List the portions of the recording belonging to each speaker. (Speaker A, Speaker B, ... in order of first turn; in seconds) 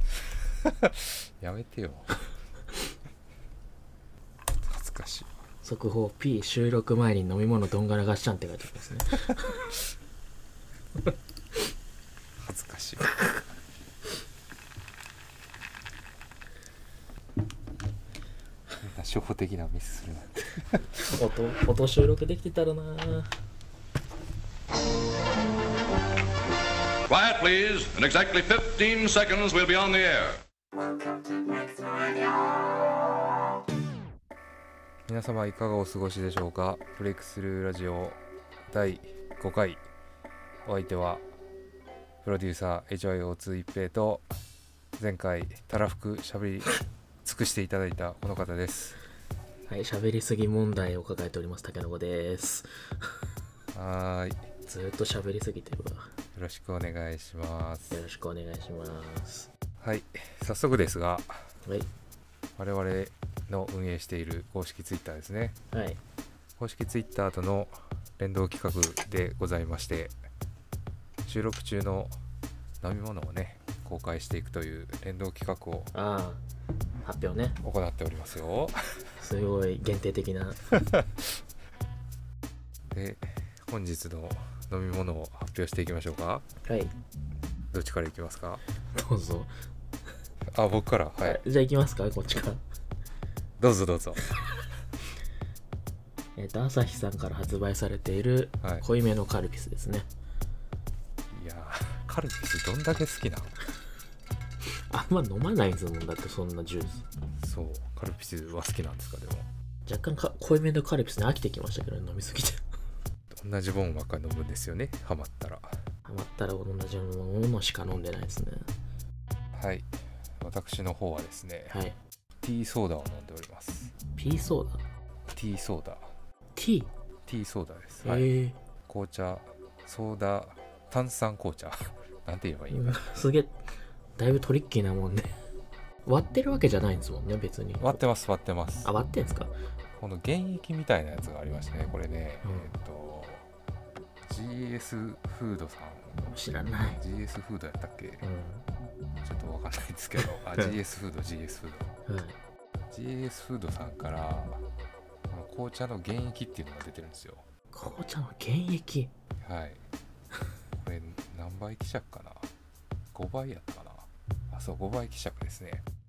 Speaker A: 0.8-2.2, 4.6-5.3, 12.4-13.2, 18.8-21.0, 35.1-38.2, 38.7-39.8, 40.6-41.2, 42.2-44.3, 45.0-49.0, 53.7-54.4, 56.3-58.0, 59.8-61.4, 62.6-65.5, 66.6-70.1, 71.2-72.1, 72.8-75.9, 77.6-78.8, 82.9-86.4, 87.7-88.6, 90.5-91.4, 93.6-94.2, 101.3-103.6, 107.4-109.5, 113.3-115.7, 119.5-121.8, 122.4-123.9, 125.3-126.1, 127.2-128.3, 128.9-133.0, 137.8-138.9, 140.0-143.5, 144.3-146.2, 147.0-148.3, 149.2-151.9, 152.9-154.6, 155.3-157.4, 159.4-159.8, 160.8-162.5, 163.1-165.8
Speaker B: 5.6-9.7, 21.0-23.3, 49.7-52.7, 54.7-56.1, 57.9-59.5, 65.7-66.0, 75.9-76.4, 77.0-77.6, 79.2-80.8, 86.6-86.9, 88.9-89.5, 91.2-92.6, 96.3-100.1, 104.9-107.0, 109.8-112.6, 116.0-118.7, 121.7-122.0, 124.2-124.8, 126.5-126.9, 128.0-128.6, 132.7-133.6, 134.2-135.3, 136.0-138.0, 138.8-139.5, 142.4-142.7, 146.2-147.0, 148.2-148.7, 152.1-152.4, 157.7-159.1
Speaker C: 27.1-30.4